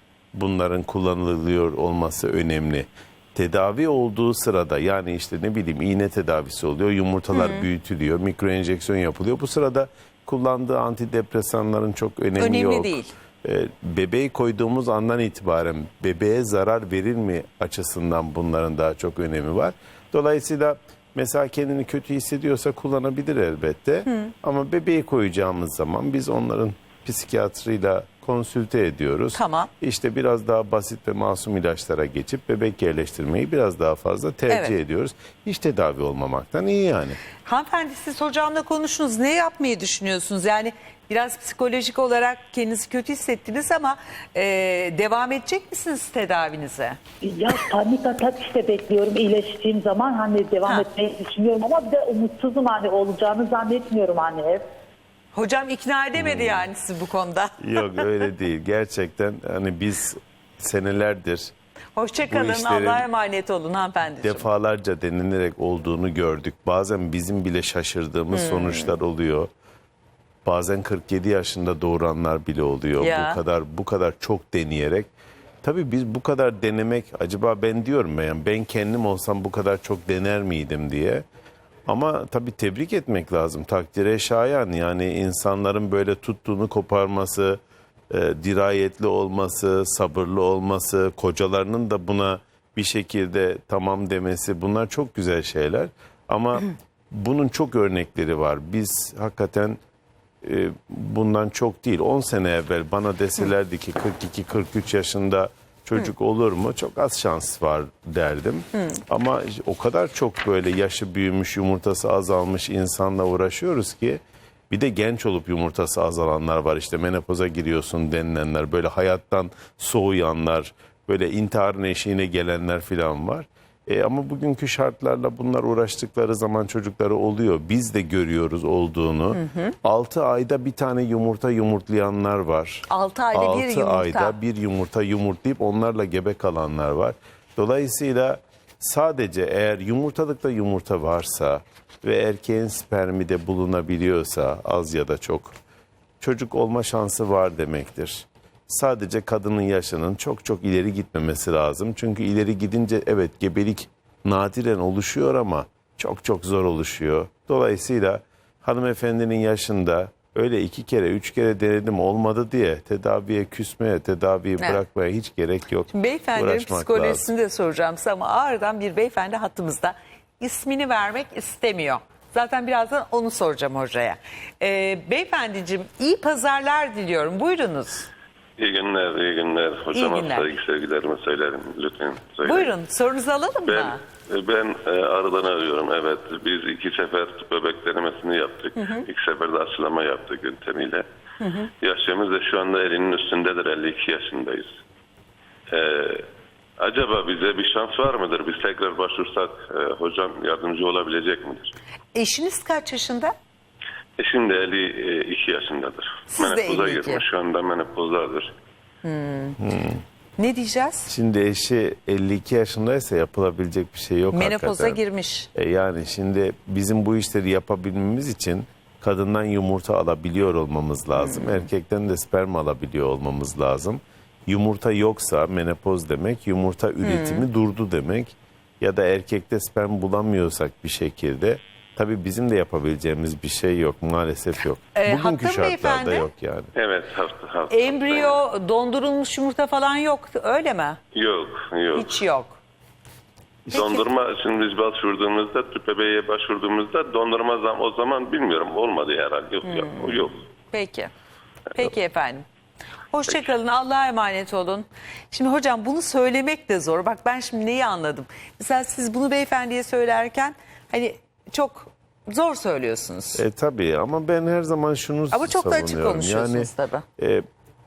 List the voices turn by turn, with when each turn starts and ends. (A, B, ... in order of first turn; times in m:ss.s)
0:00.3-0:37.2 A
0:07.3-0:07.7 B
0:12.4-0:13.1 B
0:24.0-0:24.3 B
0:29.3-0:29.7 B
0:37.4-0:47.0 B
0:47.2-0:54.6 C
0:55.3-0:58.0 B
0:56.2-0:56.7 A
0:57.6-1:01.5 A
1:02.0-1:04.5 B
1:02.2-1:03.1 A
1:04.2-1:09.5 A
1:08.3-1:08.9 B
1:10.4-1:15.1 A
1:13.0-1:13.4 B
1:15.6-1:21.2 A
1:21.8-1:39.8 A
1:40.4-2:25.5 A
2:09.3-2:09.7 B
2:12.9-2:14.4 B
2:26.2-2:47.3 A
2:45.9-2:58.1 B
2:58.6-3:02.7 D
2:59.9-3:00.5 B
3:02.4-3:04.0 B
3:03.7-3:11.0 D
3:08.8-3:09.0 B
3:11.4-3:11.7 B
3:11.8-3:14.8 D
3:15.7-3:16.2 D
3:16.8-3:21.7 D
3:22.1-3:23.3 B
3:24.2-3:28.5 D
3:26.3-3:27.2 B
3:29.0-3:29.6 B
3:29.6-3:30.0 A
3:30.4-3:31.1 B
3:31.1-3:35.0 A
3:34.3-3:35.5 B
3:35.5-3:56.7 A
3:41.2-3:41.6 B
3:47.0-3:47.4 B
3:54.9-3:56.3 B
3:56.7-3:58.4 D
3:57.7-4:01.0 B
4:01.1-4:02.2 D
4:01.9-4:02.6 B
4:03.6-4:04.0 A
4:03.7-4:10.4 D
4:09.7-4:10.2 B
4:10.7-4:11.1 B
4:11.7-4:12.4 B
4:13.1-4:23.4 B
4:23.3-4:27.4 A
4:25.3-4:27.0 B